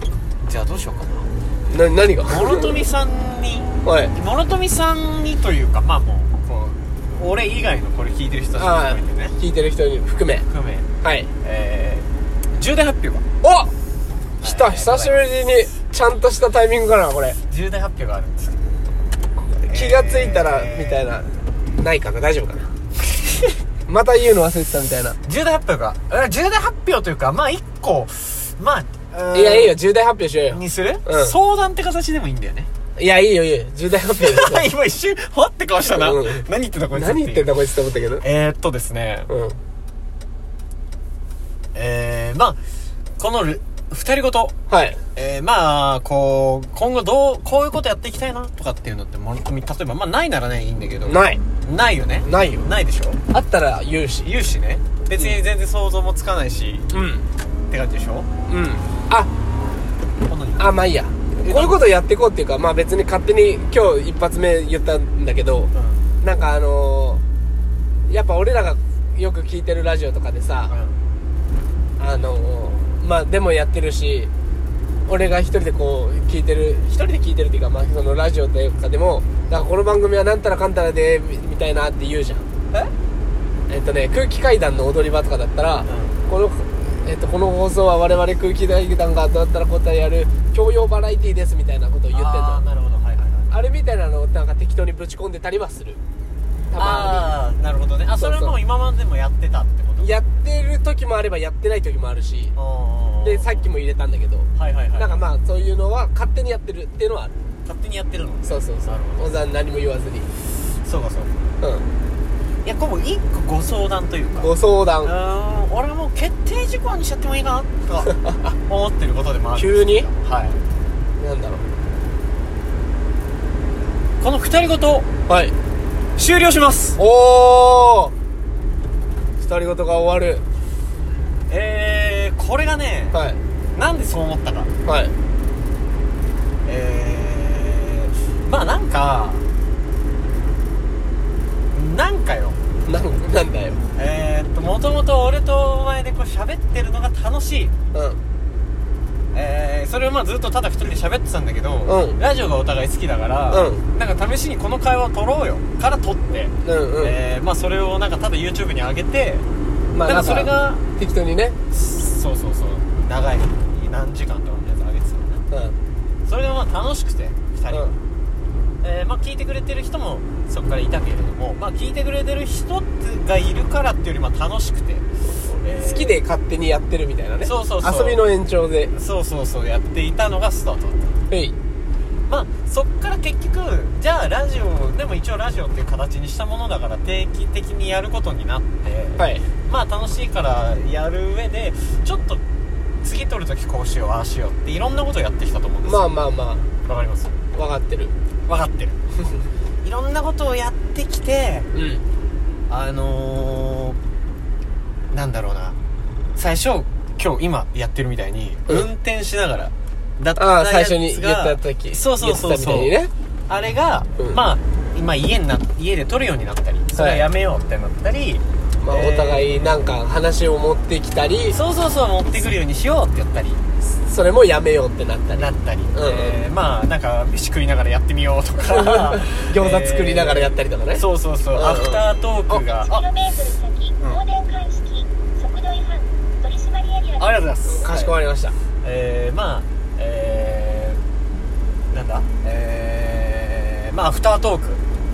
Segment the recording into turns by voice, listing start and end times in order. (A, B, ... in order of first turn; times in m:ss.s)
0:00.4-0:01.3 A
0:01.7-0:02.7 B
0:02.3-0:09.4 A
0:03.8-0:04.1 B
0:08.6-0:10.4 B
0:10.4-0:10.9 A
0:11.0-0:11.3 B
0:11.4-0:13.2 A
0:13.4-0:13.7 B
0:14.4-0:15.2 A
0:14.4-0:17.4 B
0:17.5-0:18.6 A
0:19.4-0:22.7 B
0:19.7-0:21.0 A
0:23.9-0:25.2 B
0:25.2-0:29.8 A
0:29.3-0:31.4 B
0:30.5-0:32.7 A
0:33.0-0:34.7 B
0:34.2-0:37.6 A
0:35.8-0:38.2 B
0:38.2-0:39.3 A
0:39.3-0:39.6 B
0:41.7-0:42.6 A
0:43.2-0:44.6 A
0:44.7-0:45.0 B
0:45.1-0:53.2 A
0:51.0-0:51.4 B
0:52.2-0:52.7 B
0:53.3-0:54.3 B
0:54.2-0:56.9 A
0:56.9-0:57.3 B
0:57.7-0:58.3 A
0:58.5-0:59.3 B
1:00.3-1:00.7 A
1:00.6-1:05.7 B
1:01.4-1:01.8 A
1:05.7-1:06.1 A
1:06.2-1:07.2 B
1:08.1-1:10.7 B
1:10.7-1:11.0 A
1:12.0-1:14.3 B
1:15.0-1:22.4 B
1:23.7-1:32.6 B
1:25.9-1:26.2 A
1:32.1-1:33.5 A
1:33.5-1:36.0 B
1:36.7-1:37.3 B
1:36.7-1:40.1 A
1:38.2-1:38.5 B
1:40.0-1:42.5 B
1:42.5-1:43.6 A
1:43.2-1:47.3 B
1:44.5-1:45.2 A
1:47.6-1:49.3 A
1:48.4-1:50.3 B
1:50.8-1:51.3 A
1:51.6-1:51.9 B
1:52.6-2:00.6 A
1:54.4-1:55.1 B
1:58.1-1:58.5 B
1:59.5-2:00.1 B
2:01.2-2:01.6 B
2:04.2-2:05.1 A
2:05.3-2:05.5 B
2:06.2-2:07.0 A
2:07.0-2:08.1 B
2:09.4-2:10.4 B
2:11.5-2:13.2 A
2:13.1-2:13.4 B
2:13.7-2:14.7 A
2:14.8-2:15.1 B
2:16.6-2:19.4 A
2:21.7-2:22.6 A
2:22.8-2:23.8 B
2:23.9-2:27.7 A
2:27.9-2:28.2 B
2:29.3-2:39.4 A
2:31.8-2:32.2 B
2:33.5-2:33.8 B
2:36.6-2:37.2 B
2:39.9-2:41.6 B
2:40.0-2:40.8 A
2:41.7-2:45.4 A
2:45.5-2:45.8 B
2:46.2-2:48.0 A
2:48.8-2:55.1 A
2:55.6-2:56.2 A
2:55.7-2:58.9 B
2:57.4-2:58.2 A
2:58.9-3:01.2 A
3:01.3-3:01.5 B
3:02.3-3:12.4 A
3:09.2-3:09.5 B
3:13.0-3:16.1 A
3:15.8-3:16.7 B
3:16.8-3:17.4 A
3:17.5-3:18.1 B
3:18.5-3:19.0 A
3:19.8-3:21.7 A
3:21.7-3:22.0 B
3:22.7-3:24.0 A
3:25.1-3:25.8 A
3:26.3-3:33.0 A
3:30.4-3:33.1 B
3:33.5-3:39.8 A
3:36.9-3:37.2 B
3:38.8-3:41.6 B
3:41.5-3:43.6 A
3:44.0-3:46.4 B
3:45.3-3:53.1 A
3:48.8-3:52.6 B
3:52.7-3:57.2 C
3:57.2-3:58.1 A
3:57.7-3:58.6 B
3:58.8-4:01.0 A
4:01.9-4:04.8 A